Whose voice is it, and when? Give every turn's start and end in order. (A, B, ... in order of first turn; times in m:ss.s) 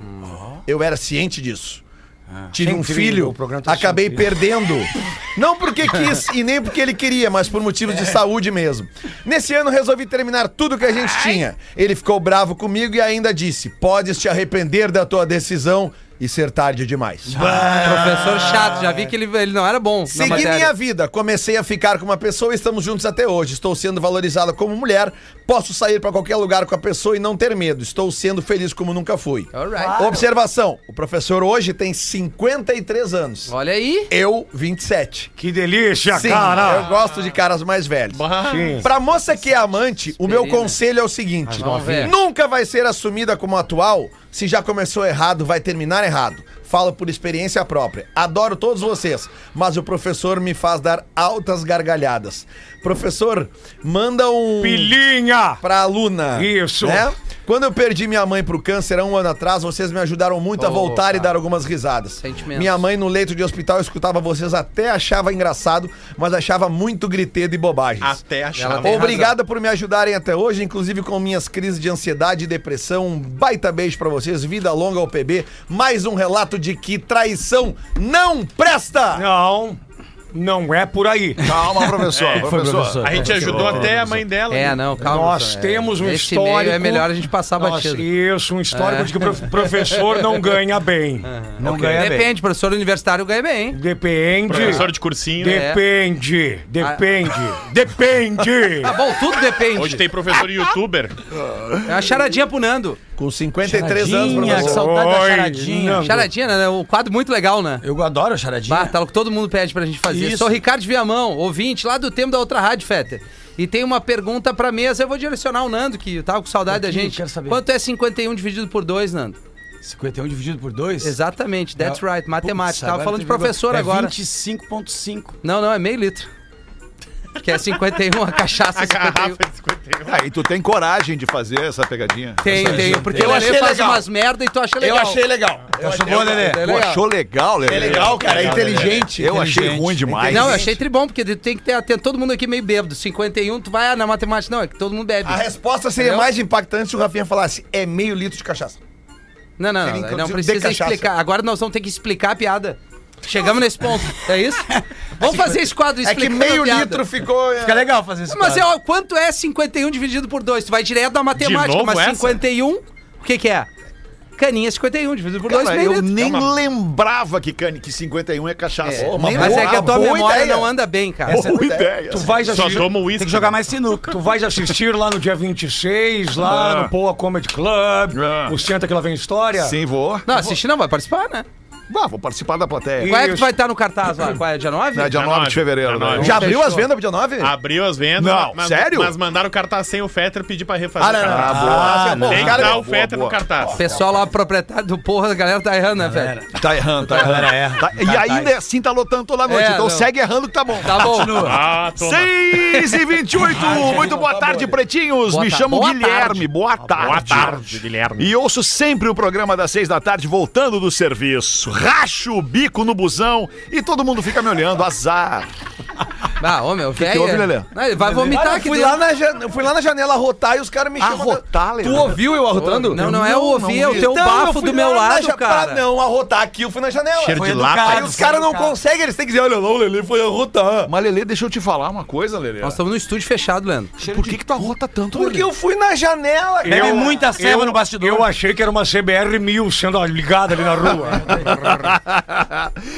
0:00.2-0:00.6 A
0:00.6-0:01.8 B
0:02.5-0:17.6 B
0:02.6-0:04.3 C
0:17.3-0:19.0 A
0:17.8-0:20.7 D
0:20.1-0:33.5 B
0:29.5-0:30.0 D
0:29.8-0:30.2 A
0:33.5-0:34.1 D
0:34.1-0:35.3 B
0:35.4-0:36.9 C
0:36.1-0:55.0 B
0:38.1-0:38.8 E
0:38.5-0:38.9 C
0:40.2-0:40.8 D
0:41.5-0:42.1 C
0:41.5-0:42.1 D
0:54.6-0:55.6 C
0:55.6-1:08.2 B
0:56.3-0:57.0 C
1:00.6-1:01.3 D
1:02.2-1:02.8 D
1:08.0-1:09.2 E
1:08.6-1:09.3 D
1:08.8-1:19.2 B
1:19.1-1:19.8 C
1:20.3-1:21.6 C
1:21.4-1:24.2 F
1:22.1-1:24.8 E
1:22.3-1:23.9 A
1:24.5-1:28.1 D
1:25.0-1:32.2 C
1:28.7-1:30.0 D
1:31.2-1:33.8 D
1:31.6-1:32.2 A
1:33.7-1:38.9 C
1:34.5-1:35.6 E
1:35.4-1:35.8 D
1:38.8-1:40.0 D
1:39.7-1:41.2 E
1:41.4-1:41.8 F
1:41.8-1:43.0 D
1:43.2-1:44.9 B
1:43.6-1:46.1 A
1:44.4-1:46.3 C
1:46.0-1:47.8 D
1:47.8-1:49.0 A
1:48.7-1:59.4 D
1:50.0-1:50.6 A
1:56.7-1:57.6 A
1:59.8-2:01.1 A
2:01.0-2:04.1 D
2:01.8-2:05.4 A
2:05.4-2:06.3 D
2:07.4-2:09.4 D
2:08.7-2:10.2 E
2:10.0-2:12.9 F
2:12.4-2:15.2 D
2:12.4-2:13.6 A
2:13.0-2:14.1 B
2:14.8-2:16.5 B
2:15.8-2:16.6 A
2:16.1-2:17.0 D
2:16.6-2:20.7 F
2:17.6-2:19.4 B
2:17.8-2:18.0 E
2:17.8-2:20.0 A
2:20.0-2:20.8 B
2:20.3-2:25.4 D
2:25.2-2:28.8 B
2:26.0-2:26.3 D
2:29.6-2:37.0 D
2:29.8-2:31.1 B
2:35.2-2:35.7 A
2:36.0-2:37.9 B
2:37.6-2:38.7 A
2:38.3-2:43.7 D
2:41.3-2:42.4 E
2:44.4-2:46.2 D
2:45.5-2:50.0 F
2:46.2-2:46.5 E
2:48.8-2:51.4 D
2:48.9-2:50.7 B
2:51.3-2:51.6 A
2:51.3-2:52.7 F
2:51.3-2:52.0 B
2:52.1-2:52.9 C
2:52.4-2:53.8 E
2:52.7-2:54.2 A
2:54.1-2:59.8 C
2:56.4-2:56.9 F
2:58.1-2:58.6 F
2:59.6-3:00.2 F
3:00.2-3:01.4 D
3:01.9-3:03.1 F
3:03.0-3:03.5 C
3:03.0-3:05.2 D
3:04.9-3:06.6 F
3:05.1-3:06.6 E
3:06.2-3:06.9 D
3:06.2-3:07.5 B
3:07.4-3:13.8 E
3:08.2-3:09.1 F
3:11.0-3:12.8 B
3:11.2-3:13.9 F
3:11.5-3:12.6 A
3:13.8-3:16.3 D
3:16.0-3:18.5 A
3:16.5-3:35.5 F
3:19.5-3:20.1 D
3:20.8-3:21.6 D
3:20.9-3:21.6 A
3:21.4-3:22.8 E
3:23.5-3:24.2 A
3:23.5-3:24.8 B
3:25.3-3:26.5 D
3:26.9-3:28.3 E
3:36.4-3:39.0 D
3:36.9-3:37.7 F
3:38.0-3:38.6 A
3:38.2-3:43.1 B
3:41.0-3:44.2 F
3:42.8-3:45.8 D
3:43.8-3:50.9 B
3:47.2-3:48.1 E
3:47.4-3:48.8 A
3:50.8-3:52.8 F
3:52.6-3:53.9 D
3:54.0-3:54.4 A
3:54.0-3:55.5 F
3:54.6-3:57.2 B
3:56.6-4:01.4 C
3:56.7-3:58.3 A
4:01.0-4:01.5 A
4:01.4-4:02.7 F